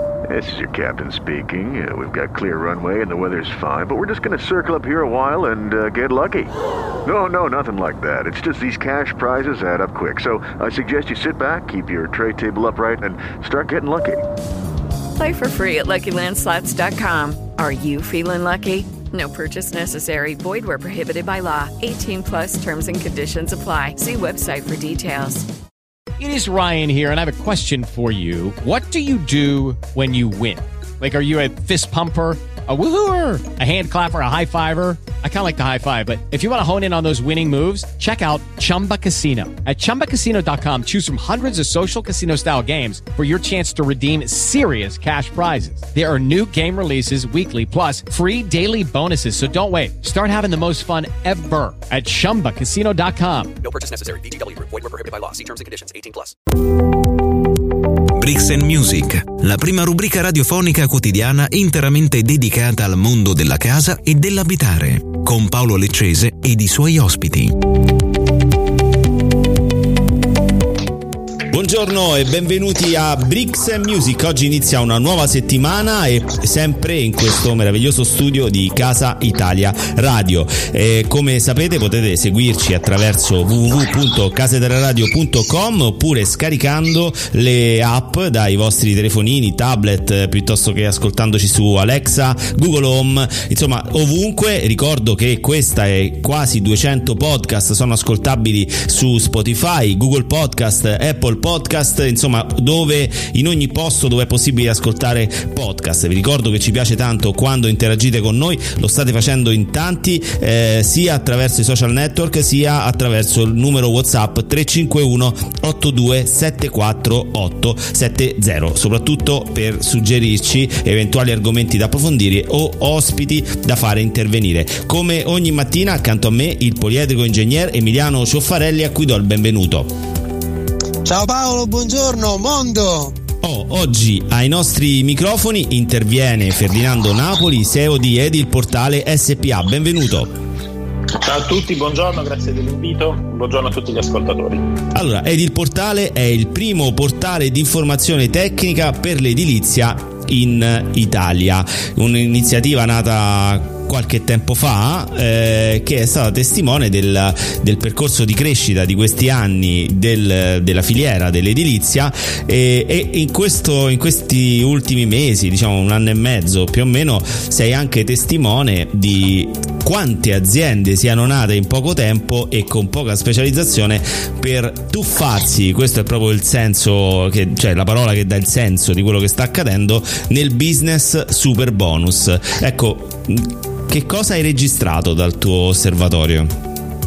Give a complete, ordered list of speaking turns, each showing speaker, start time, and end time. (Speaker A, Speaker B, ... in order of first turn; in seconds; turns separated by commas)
Speaker A: 0.3-6.5, Speaker A: 7.0-14.3, Speaker B: 15.2-25.5, Speaker C: 26.2-53.5, Speaker D: 53.6-56.4, Speaker E: 58.2-67.6, Speaker F: 71.5-129.9, Speaker G: 131.0-133.2, Speaker F: 133.4-140.3, Speaker H: 141.2-144.7, Speaker F: 144.9-186.5